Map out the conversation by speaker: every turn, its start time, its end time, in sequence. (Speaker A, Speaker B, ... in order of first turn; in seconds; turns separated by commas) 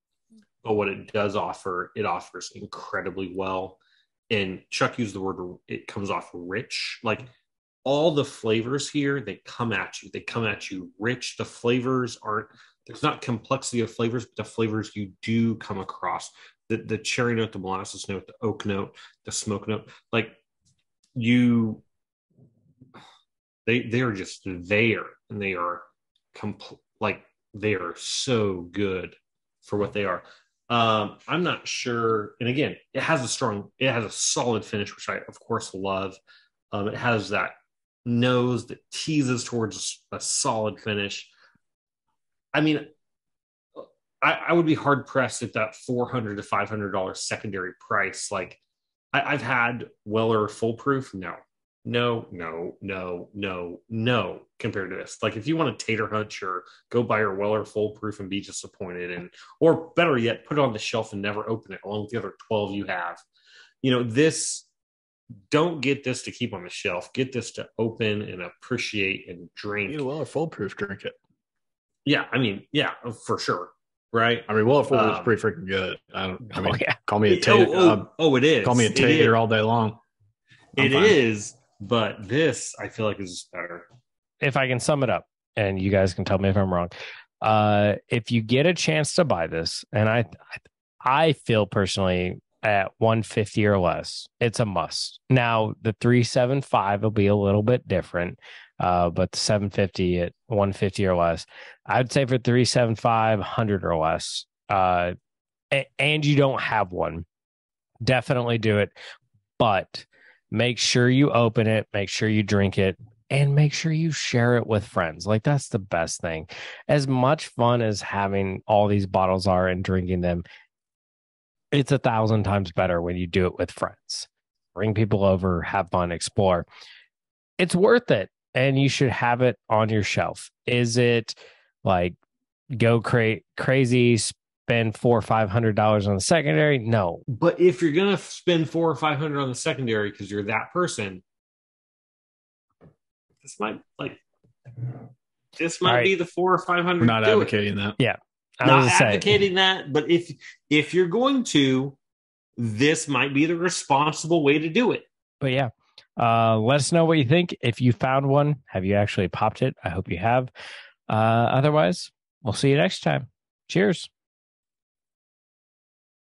Speaker A: 0.6-7.3, Speaker A: 7.8-20.4, Speaker A: 21.1-21.8, Speaker A: 23.6-36.2, Speaker A: 36.7-41.3, Speaker A: 42.5-42.9, Speaker A: 43.8-48.6, Speaker A: 49.1-63.2, Speaker A: 63.8-64.7, Speaker A: 65.5-70.1, Speaker B: 69.9-71.2, Speaker A: 72.0-75.4, Speaker B: 74.5-78.1, Speaker C: 76.5-76.9, Speaker A: 77.2-79.4, Speaker B: 78.6-80.0, Speaker A: 80.8-83.9, Speaker B: 80.8-81.2, Speaker C: 84.4-105.1, Speaker C: 105.7-107.2, Speaker C: 108.0-108.9, Speaker C: 109.6-120.4, Speaker C: 121.7-126.7, Speaker C: 127.6-132.2, Speaker C: 132.8-137.2, Speaker A: 137.3-141.2, Speaker A: 143.4-144.2, Speaker A: 145.6-147.5, Speaker C: 145.8-146.1, Speaker B: 147.0-148.0, Speaker C: 148.0-149.3, Speaker A: 148.6-152.0, Speaker A: 152.6-155.1, Speaker C: 155.4-160.5, Speaker C: 161.1-164.1